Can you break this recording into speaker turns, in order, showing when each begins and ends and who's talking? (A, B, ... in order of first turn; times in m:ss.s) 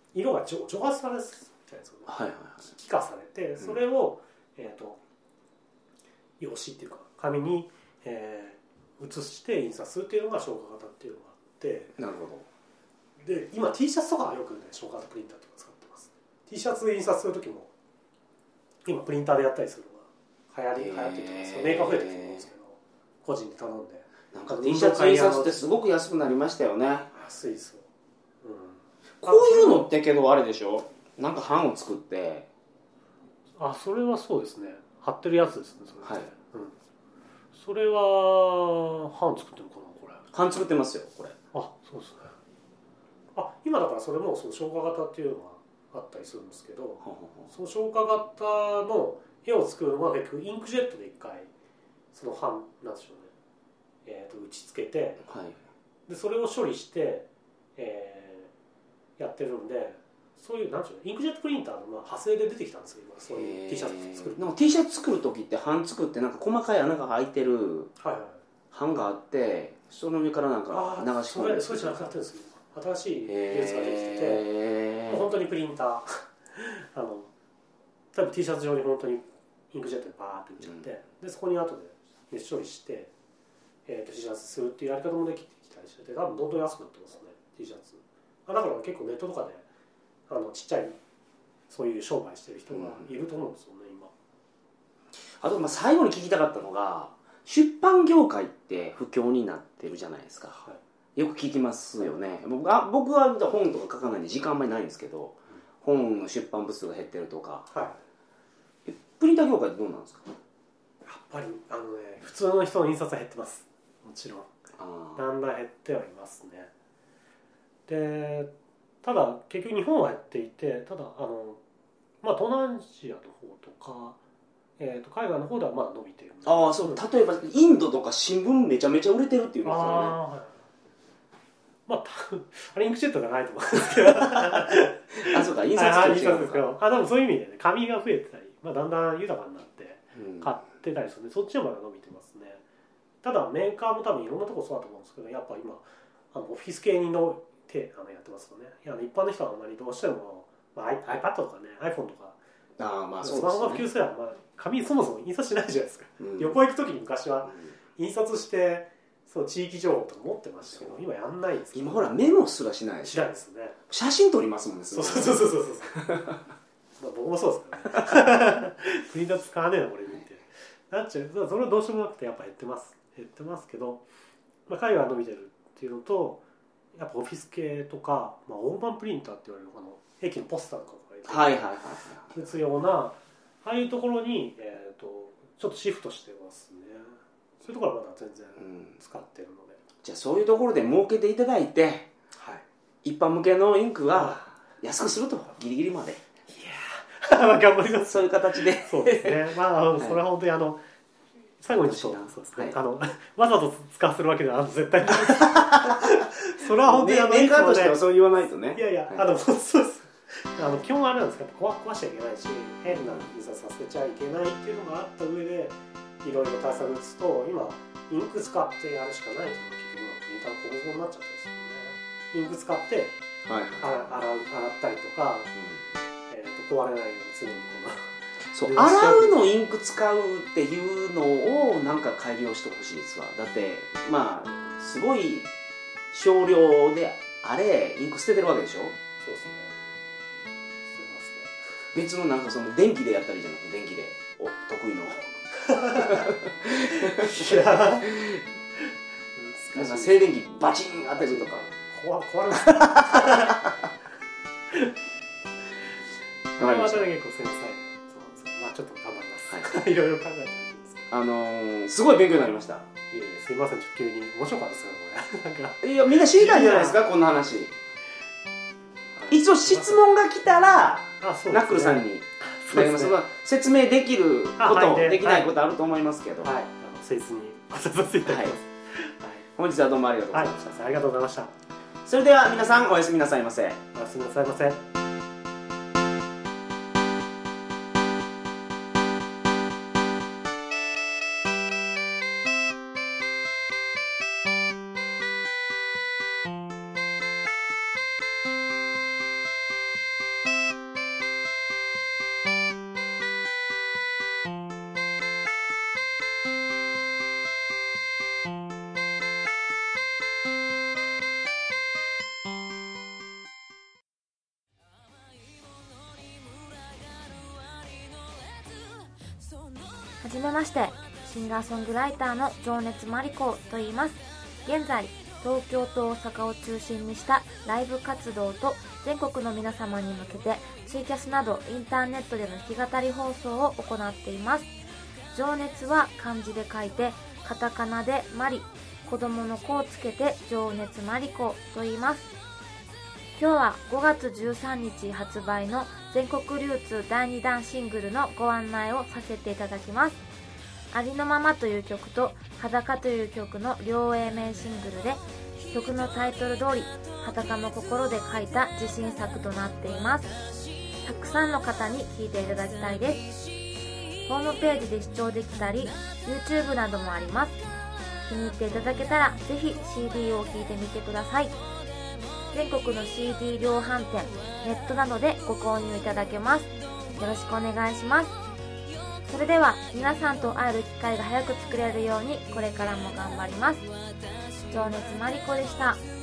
0:00.1-0:02.1 A
0:02.1-0:02.7 B
0:02.6-0:05.0 A
0:06.4-0:12.0 A
0:12.0-0:12.5 B
0:13.2-0:17.7 A
0:18.8-0:25.6 A
0:20.8-0:22.5 B
0:24.3-0:27.1 B
0:27.1-0:27.9 A
0:28.4-0:29.9 A
0:29.2-0:32.5 B
0:33.6-0:36.8 A
0:36.0-0:36.3 B
0:37.5-0:40.2 A
0:40.3-0:41.4 B
0:41.5-0:42.4 A
0:43.4-0:51.5 A
0:47.0-0:47.5 B
0:52.1-0:53.3 A
0:54.0-0:55.2 A
0:55.2-0:55.6 B
0:56.1-0:58.5 A
0:59.2-1:04.4 A
1:03.4-1:07.9 B
1:08.0-1:08.4 A
1:08.7-1:12.1 B
1:10.7-1:14.4 A
1:13.3-1:15.3 B
1:15.1-1:17.3 A
1:18.1-1:23.1 A
1:23.9-1:29.7 A
1:30.3-1:31.0 A
1:31.7-1:34.1 A
1:32.7-1:33.1 B
1:35.4-1:40.6 B
1:41.2-1:47.7 B
1:47.7-1:48.0 A
1:48.9-1:50.3 B
1:51.0-1:54.5 A
1:54.8-1:55.2 B
1:55.2-1:56.7 A
1:57.9-1:58.5 A
1:59.0-2:01.6 A
2:02.2-2:04.2 A
2:04.8-2:07.0 A
2:06.4-2:10.2 B
2:09.6-2:10.6 A
2:11.9-2:22.6 A
2:15.1-2:16.7 B
2:20.2-2:20.5 B
2:23.2-2:32.4 A
2:32.8-2:33.9 B
2:33.2-2:42.2 A
2:36.2-2:36.6 B
2:41.7-2:43.3 B
2:43.0-2:43.8 A
2:43.9-2:46.4 B
2:44.9-2:46.0 A
2:47.0-2:54.0 A
2:54.7-2:56.4 A
2:57.0-3:01.7 A
3:01.3-3:02.4 B
3:02.3-3:09.8 A
3:08.6-3:09.0 B
3:10.0-3:12.1 B
3:12.4-3:12.6 A
3:13.0-3:16.2 B
3:14.1-3:14.4 A
3:16.5-3:20.8 A
3:18.0-3:20.2 B
3:21.6-3:28.0 A
3:21.7-3:22.8 B
3:25.2-3:26.2 B
3:26.8-3:29.2 B
3:28.7-3:43.2 A
3:32.9-3:33.3 B
3:43.4-3:44.0 B
3:43.8-3:45.5 A
3:45.6-3:45.8 B
3:46.3-3:49.5 A
3:48.5-3:55.5 B
3:56.1-3:59.0 B
3:59.2-3:59.8 A
4:00.8-4:01.6 A
4:01.9-4:08.4 B
4:05.7-4:06.3 A
4:07.0-4:08.2 A
4:09.4-4:10.3 A
4:09.7-4:11.7 B
4:11.2-4:13.7 A
4:12.5-4:13.8 B
4:14.7-4:15.0 A
4:16.6-4:21.1 A
4:16.6-4:17.1 B
4:21.1-4:22.9 B
4:23.1-4:27.0 A
4:25.8-4:27.7 B
4:29.2-4:30.0 A
4:29.3-4:36.5 B
4:31.2-4:33.2 A
4:34.6-4:35.5 A
4:36.4-4:39.5 A
4:38.3-4:38.6 B
4:39.6-4:40.8 B
4:40.3-4:41.5 A
4:42.0-4:43.8 B
4:43.9-4:44.9 A
5:20.2-5:34.7 C
5:35.3-5:42.3 C
5:43.4-5:50.2 C
5:50.9-6:00.4 C
6:01.0-6:03.3 C
6:04.3-6:07.6 C
6:08.3-6:11.5 C
6:12.5-6:18.4 C
6:19.3-6:23.9 C
6:24.7-6:26.0 C